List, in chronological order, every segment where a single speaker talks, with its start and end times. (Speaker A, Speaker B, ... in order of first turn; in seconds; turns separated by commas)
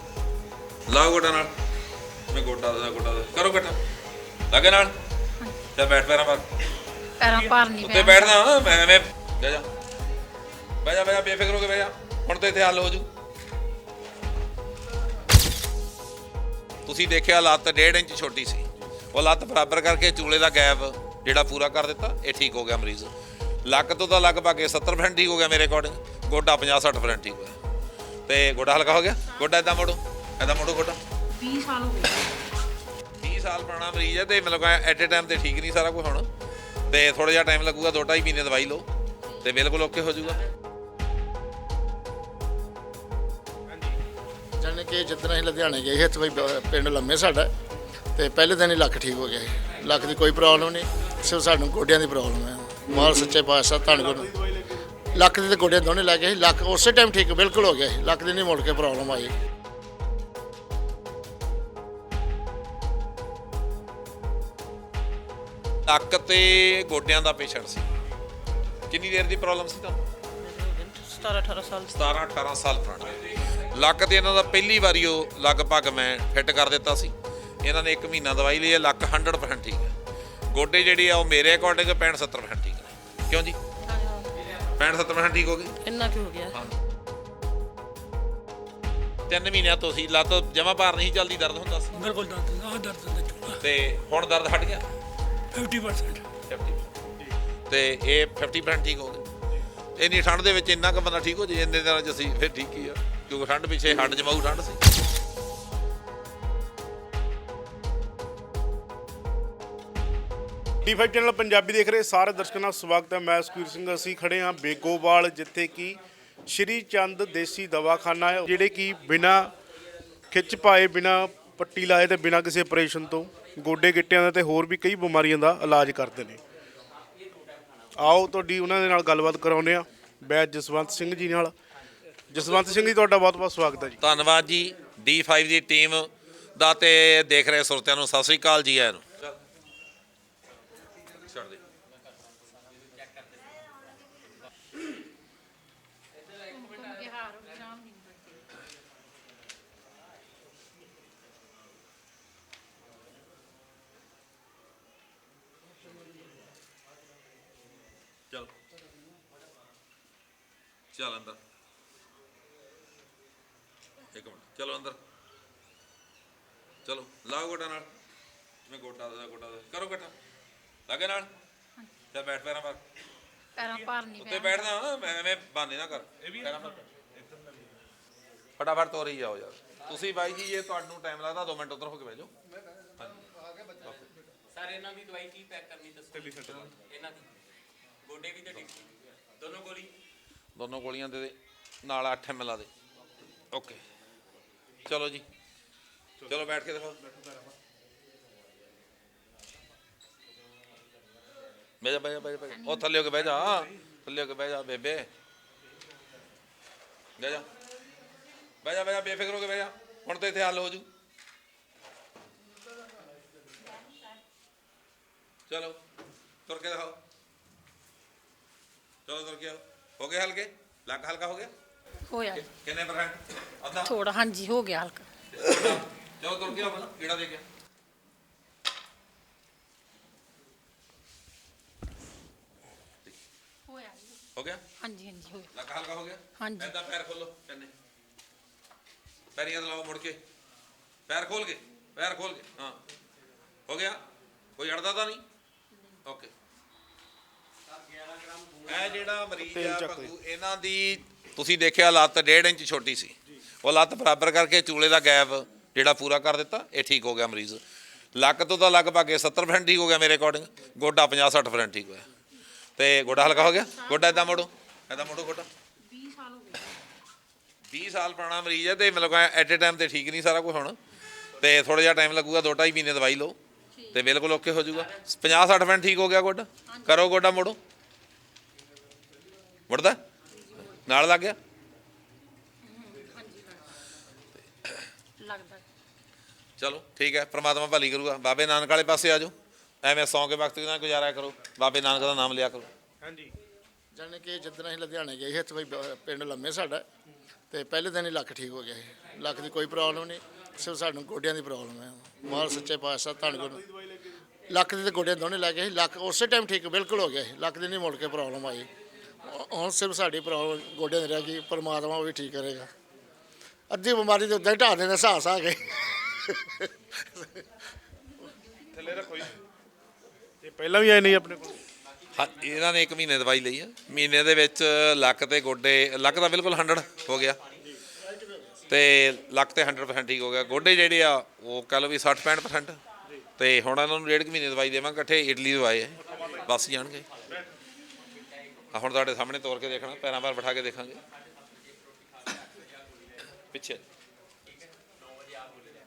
Speaker A: 0.9-1.5, Speaker A: 2.3-3.8, Speaker A: 4.5-4.9, Speaker A: 5.7-6.5, Speaker B: 7.2-8.6, Speaker A: 7.8-9.7, Speaker A: 10.8-13.1, Speaker A: 16.9-23.1, Speaker A: 23.6-27.6, Speaker A: 28.3-31.0, Speaker B: 31.3-32.4, Speaker A: 33.2-36.3, Speaker A: 36.9-40.4, Speaker C: 43.7-44.0, Speaker D: 44.6-47.5, Speaker D: 48.1-54.3, Speaker C: 53.9-54.8, Speaker D: 55.1-59.4, Speaker A: 65.8-67.9, Speaker A: 68.9-70.0, Speaker E: 70.4-71.9, Speaker A: 71.9-79.9, Speaker A: 80.5-83.6, Speaker E: 83.8-84.3, Speaker A: 84.8-85.8, Speaker E: 85.8-86.5, Speaker A: 89.3-92.0, Speaker F: 91.9-93.6, Speaker A: 93.6-94.8, Speaker F: 95.5-96.3, Speaker A: 96.5-96.8, Speaker A: 97.7-99.2, Speaker A: 100.0-104.8, Speaker C: 110.8-119.5, Speaker C: 120.3-126.4, Speaker C: 127.9-131.5, Speaker C: 132.3-134.0, Speaker A: 134.0-139.4, Speaker A: 141.2-141.6, Speaker B: 146.5-148.4, Speaker A: 160.9-161.4, Speaker A: 164.1-165.0, Speaker A: 166.8-167.9, Speaker A: 168.7-170.1, Speaker A: 170.9-171.3, Speaker A: 172.1-172.8, Speaker B: 173.6-174.7, Speaker A: 174.2-176.8, Speaker A: 178.6-182.3, Speaker A: 183.0-183.2, Speaker A: 183.8-184.1, Speaker G: 184.6-186.1, Speaker C: 186.1-186.5, Speaker A: 186.4-186.7, Speaker G: 189.5-189.9, Speaker A: 190.5-192.7, Speaker A: 193.5-193.8, Speaker A: 194.8-195.2, Speaker A: 196.2-197.0, Speaker A: 201.8-205.1, Speaker B: 202.5-202.9, Speaker A: 207.2-207.5, Speaker A: 208.6-210.9, Speaker A: 215.5-215.8, Speaker A: 216.4-217.0, Speaker A: 219.1-221.5, Speaker B: 222.1-222.5, Speaker A: 222.4-223.9, Speaker B: 223.8-225.1, Speaker A: 225.3-227.4, Speaker B: 233.7-234.2, Speaker A: 234.3-234.6, Speaker B: 234.8-235.5, Speaker A: 235.5-237.7, Speaker B: 236.4-236.7, Speaker A: 239.3-240.2, Speaker A: 241.1-242.8, Speaker A: 243.7-244.0, Speaker A: 244.6-245.2, Speaker A: 246.0-246.3, Speaker A: 248.7-257.6, Speaker C: 249.4-250.1, Speaker A: 258.1-262.1, Speaker A: 262.8-265.5, Speaker B: 263.1-264.5, Speaker B: 265.8-266.8, Speaker A: 267.7-270.8, Speaker A: 271.4-273.4, Speaker B: 273.7-274.0, Speaker A: 273.9-277.6, Speaker B: 276.7-277.0, Speaker A: 279.7-280.0, Speaker A: 280.6-281.4, Speaker B: 282.6-283.7, Speaker A: 284.4-284.9, Speaker B: 285.2-285.6, Speaker A: 286.6-292.7, Speaker C: 293.0-293.3, Speaker D: 293.9-296.8, Speaker D: 297.5-303.6, Speaker C: 303.2-304.2, Speaker D: 304.5-308.7, Speaker D: 309.2-312.7, Speaker D: 313.7-317.6, Speaker C: 318.8-319.4, Speaker C: 320.4-321.6, Speaker A: 322.1-327.4, Speaker D: 328.0-328.5, Speaker A: 328.7-332.8, Speaker A: 333.4-337.1, Speaker A: 338.7-341.0, Speaker A: 343.5-343.8